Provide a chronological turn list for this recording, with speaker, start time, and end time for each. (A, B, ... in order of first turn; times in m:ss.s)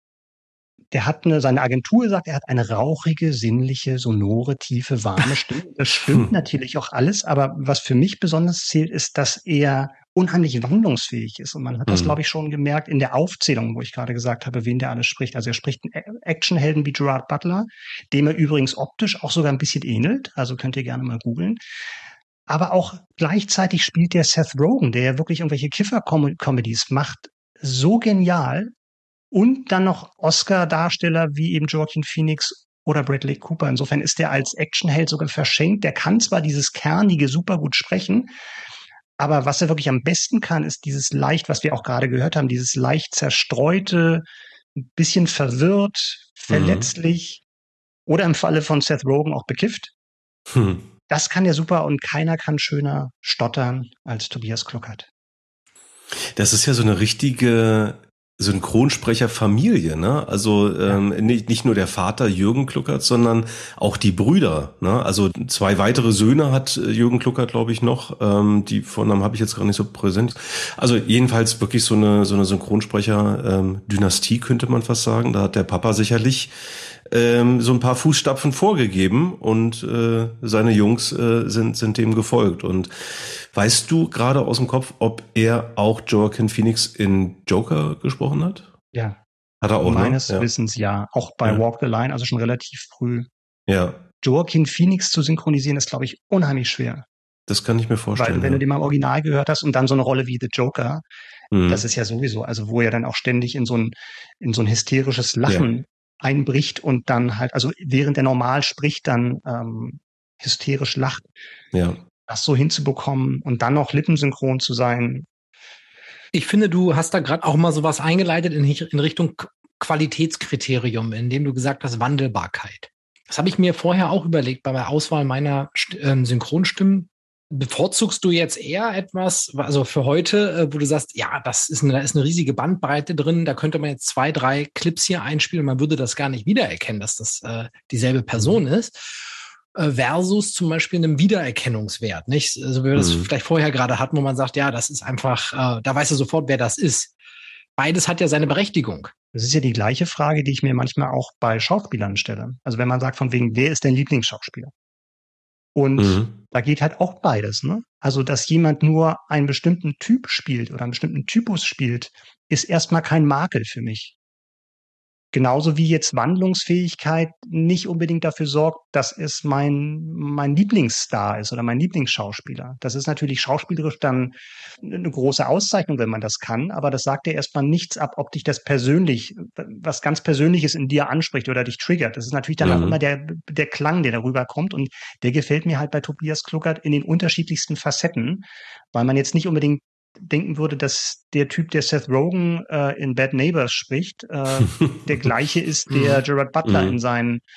0:00.9-0:21.6 A
0:11.9-0:12.2 B
0:22.5-0:28.7 A
0:29.3-0:38.3 A
0:39.2-0:44.2 A
0:44.8-0:47.4 A
0:46.5-0:46.9 B
0:48.1-0:49.9 A
0:50.5-0:50.8 B
0:51.1-0:55.1 A
0:56.3-1:16.5 B
1:17.1-1:22.9 B
1:23.5-1:28.7 B
1:28.9-1:29.2 A
1:29.6-1:30.4 B
1:29.8-1:33.3 A
1:33.7-1:34.0 B
1:34.2-1:37.0 A
1:37.5-1:38.6 B
1:38.2-1:41.0 A
1:41.5-1:41.8 B
1:41.7-1:51.3 A
1:51.7-1:52.0 B
1:52.3-1:55.2 A
1:56.3-2:19.1 C
2:19.7-2:27.1 C
2:22.9-2:23.3 B
2:27.8-2:29.1 C
2:29.3-2:34.7 A
2:35.7-2:44.1 A
2:36.0-2:36.3 B
2:45.3-3:17.4 A
3:02.6-3:03.0 B
3:16.6-3:17.0 B